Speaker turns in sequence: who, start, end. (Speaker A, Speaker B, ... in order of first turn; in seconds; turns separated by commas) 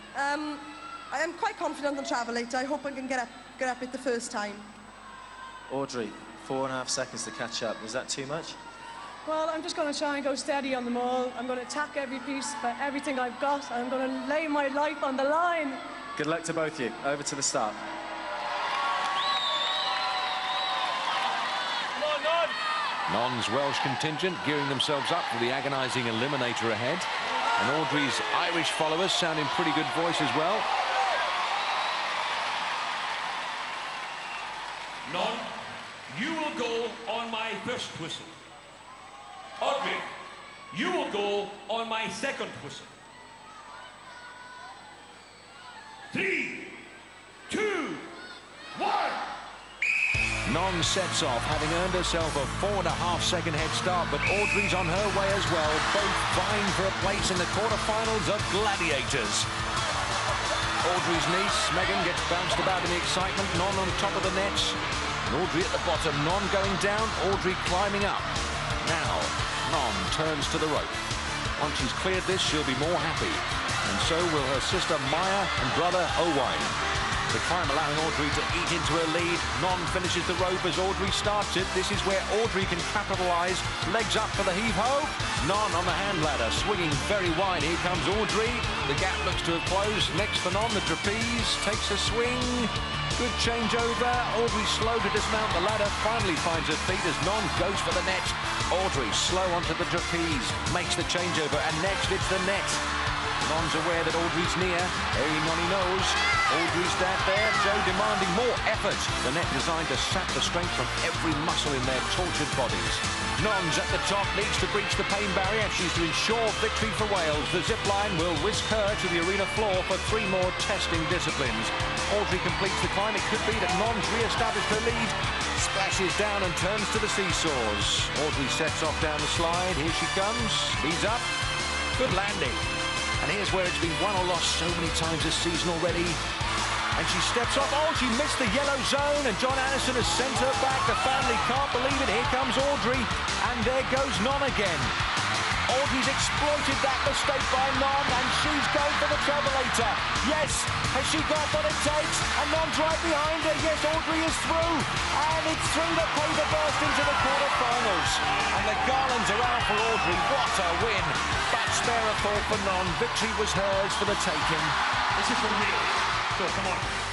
Speaker A: 0.1-4.7, Speaker B: 5.7-8.6, Speaker C: 9.3-15.8, Speaker B: 16.2-17.8, Speaker D: 23.1-30.7, Speaker E: 35.1-38.3, Speaker E: 39.6-40.1, Speaker E: 40.7-42.9, Speaker E: 46.1-46.8, Speaker E: 47.5-48.1, Speaker E: 48.8-49.3, Speaker D: 50.5-59.5, Speaker D: 60.8-71.0, Speaker D: 71.6-76.8, Speaker D: 77.3-102.8, Speaker D: 103.4-131.3, Speaker D: 131.9-132.6, Speaker D: 133.2-136.2, Speaker D: 136.9-144.9, Speaker D: 145.7-164.8, Speaker E: 165.2-166.9